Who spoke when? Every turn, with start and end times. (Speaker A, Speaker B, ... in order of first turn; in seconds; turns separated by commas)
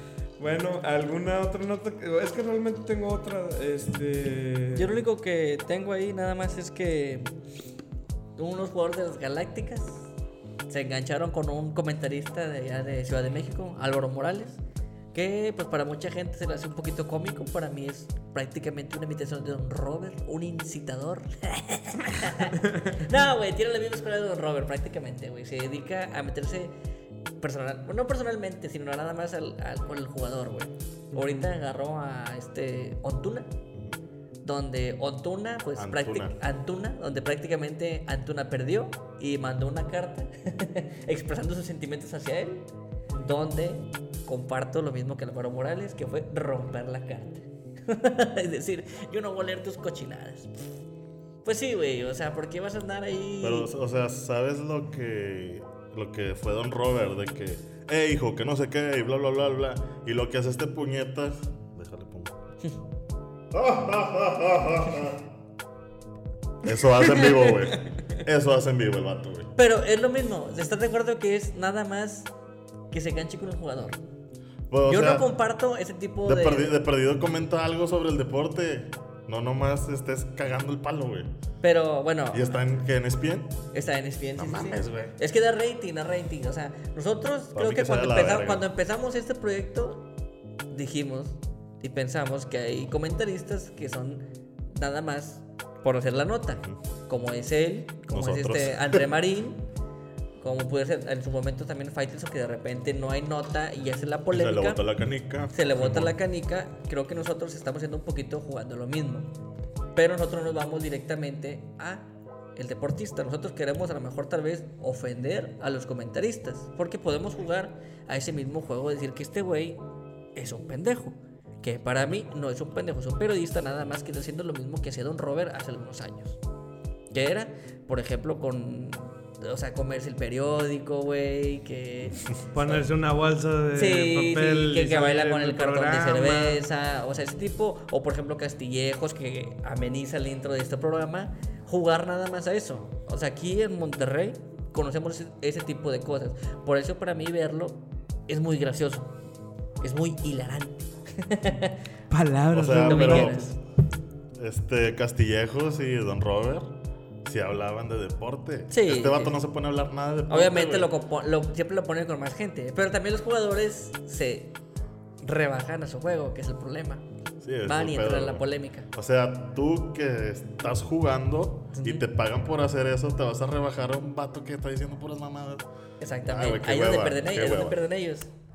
Speaker A: 0.4-4.9, Speaker B: 4.7-7.3, Speaker B: 8.4-10.1, Speaker B: 10.7-14.6, Speaker B: 15.1-26.8, Speaker B: 27.4-33.5, Speaker A: 31.1-31.5, Speaker B: 34.4-50.5, Speaker C: 35.8-36.4, Speaker B: 51.4-53.7, Speaker C: 53.4-62.3, Speaker C: 63.5-65.2, Speaker C: 66.6-69.5, Speaker A: 67.2-68.0, Speaker B: 69.5-72.3, Speaker B: 72.9-74.0, Speaker C: 74.7-75.3, Speaker B: 74.8-76.7, Speaker C: 76.2-81.3, Speaker B: 81.6-82.6, Speaker C: 82.3-83.6, Speaker B: 83.7-90.1, Speaker C: 84.3-85.1, Speaker C: 87.5-88.6, Speaker B: 90.7-99.7, Speaker C: 98.1-99.0, Speaker B: 100.4-104.8, Speaker C: 104.3-106.1, Speaker B: 105.5-109.3, Speaker B: 109.9-119.8, Speaker B: 120.3-126.4, Speaker B: 127.1-132.8, Speaker A: 132.5-136.6, Speaker B: 133.7-149.1, Speaker B: 149.8-151.8, Speaker A: 152.1-153.4, Speaker C: 152.5-153.4, Speaker B: 152.7-153.6, Speaker C: 154.3-156.7, Speaker C: 157.2-160.9, Speaker B: 158.7-159.4, Speaker B: 160.3-164.6, Speaker B: 165.2-167.0, Speaker C: 167.4-175.7, Speaker B: 167.6-168.9, Speaker B: 171.7-172.0, Speaker B: 176.0-178.3, Speaker C: 176.3-177.8